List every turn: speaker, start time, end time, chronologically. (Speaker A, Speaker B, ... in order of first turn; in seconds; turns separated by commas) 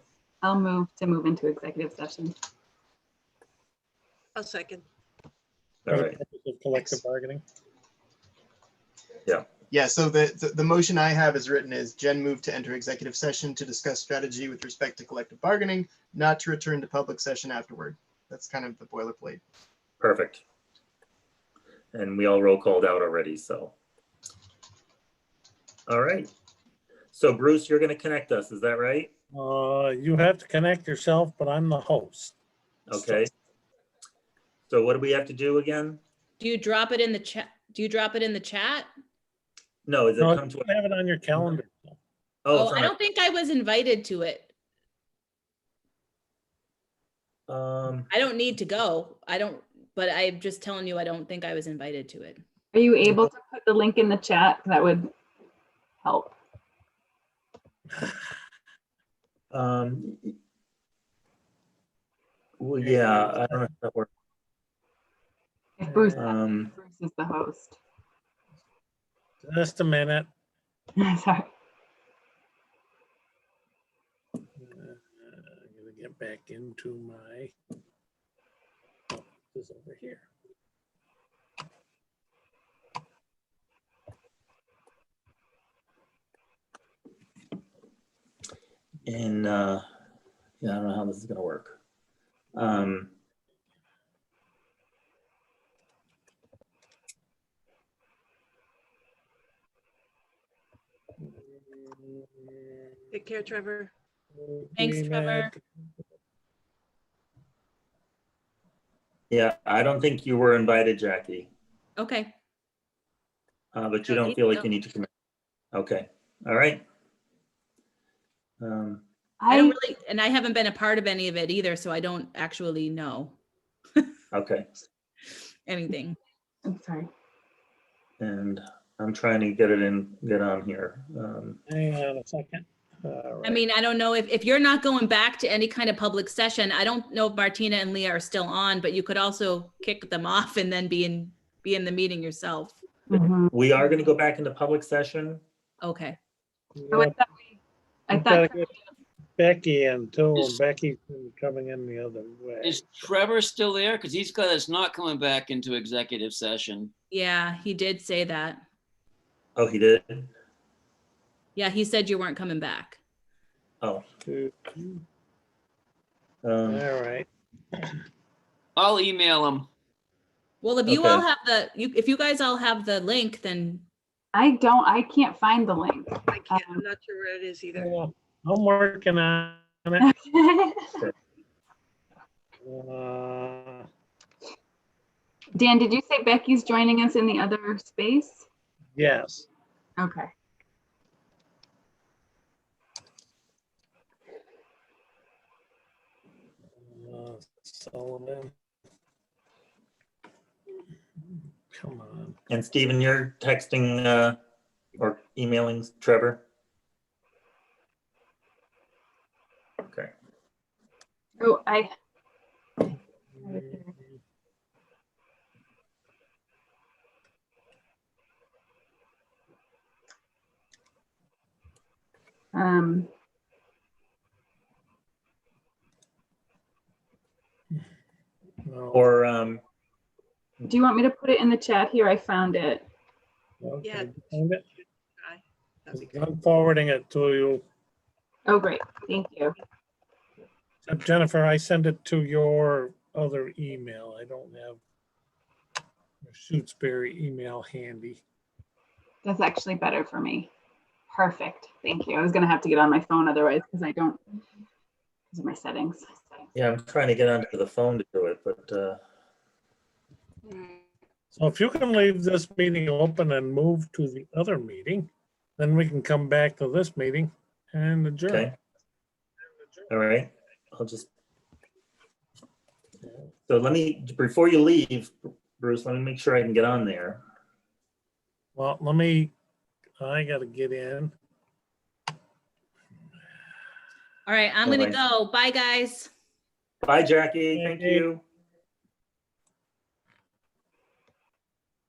Speaker A: 0.4-2.3, Speaker B: 4.3-4.8, Speaker C: 5.8-6.2, Speaker D: 5.9-7.4, Speaker E: 9.7-19.4, Speaker C: 20.0-20.4, Speaker C: 21.9-23.7, Speaker C: 25.9-26.3, Speaker C: 27.1-29.1, Speaker D: 29.3-32.4, Speaker C: 32.9-33.3, Speaker D: 32.9-33.3, Speaker C: 34.7-36.0, Speaker F: 36.4-38.9, Speaker C: 39.9-40.7, Speaker D: 40.2-42.0, Speaker C: 42.4-42.9, Speaker F: 42.5-44.5, Speaker C: 47.5-48.1, Speaker F: 48.1-52.4, Speaker A: 52.7-55.1, Speaker A: 56.0-56.4, Speaker C: 59.5-60.3, Speaker C: 62.6-64.1, Speaker D: 62.8-63.4, Speaker A: 65.8-67.8, Speaker D: 65.9-66.2, Speaker C: 66.2-66.7, Speaker D: 69.4-70.3, Speaker A: 71.0-71.5, Speaker D: 74.6-77.5, Speaker D: 79.1-80.3, Speaker C: 89.0-89.8, Speaker C: 90.6-91.8, Speaker C: 92.5-93.1, Speaker D: 101.2-102.8, Speaker B: 103.1-103.9, Speaker D: 104.3-105.6, Speaker F: 104.8-105.5, Speaker C: 109.3-111.5, Speaker F: 112.0-112.3, Speaker C: 113.7-115.1, Speaker F: 114.1-114.7, Speaker C: 115.7-116.8, Speaker C: 118.6-119.0, Speaker A: 119.4-119.8, Speaker F: 119.5-123.4, Speaker C: 124.3-124.7, Speaker F: 125.7-126.2, Speaker A: 126.6-127.1, Speaker C: 128.2-131.6, Speaker D: 131.7-133.6, Speaker F: 133.4-142.8, Speaker A: 143.1-143.6, Speaker C: 143.5-145.4, Speaker F: 145.8-146.2, Speaker D: 146.7-147.2, Speaker A: 146.9-148.7, Speaker D: 148.1-148.7, Speaker D: 149.4-153.0, Speaker G: 152.6-156.9, Speaker F: 157.1-158.6, Speaker C: 159.6-160.3, Speaker F: 161.6-163.0, Speaker D: 164.2-165.0, Speaker C: 166.4-166.8, Speaker D: 166.7-167.3, Speaker G: 168.8-169.7, Speaker F: 170.6-173.8, Speaker C: 170.8-171.2, Speaker A: 174.3-176.8, Speaker B: 176.3-177.9, Speaker D: 177.8-180.1, Speaker A: 180.0-181.0, Speaker D: 182.6-183.9, Speaker A: 185.5-188.4, Speaker D: 188.9-189.5, Speaker A: 190.0-190.3, Speaker D: 196.8-198.5, Speaker D: 201.7-202.4, Speaker C: 202.5-204.4, Speaker C: 205.0-206.4, Speaker C: 209.9-210.1, Speaker A: 211.4-211.9, Speaker A: 212.8-213.9, Speaker A: 222.5-223.1, Speaker D: 228.6-229.0, Speaker C: 228.9-229.6, Speaker A: 230.6-232.9, Speaker D: 233.6-234.6, Speaker B: 233.8-234.1, Speaker B: 235.2-236.2, Speaker D: 235.9-237.6, Speaker A: 238.4-239.6, Speaker D: 240.8-244.8, Speaker D: 246.2-248.2, Speaker A: 249.2-250.5, Speaker A: 251.1-254.4, Speaker A: 255.3-256.2, Speaker C: 256.5-259.0, Speaker A: 260.5-260.8, Speaker D: 261.3-268.5, Speaker C: 268.3-268.5, Speaker C: 269.9-271.1, Speaker C: 273.4-277.2, Speaker D: 278.6-279.3, Speaker D: 280.0-281.1, Speaker F: 284.2-286.1, Speaker C: 284.6-285.0, Speaker C: 286.8-288.2, Speaker D: 287.5-288.1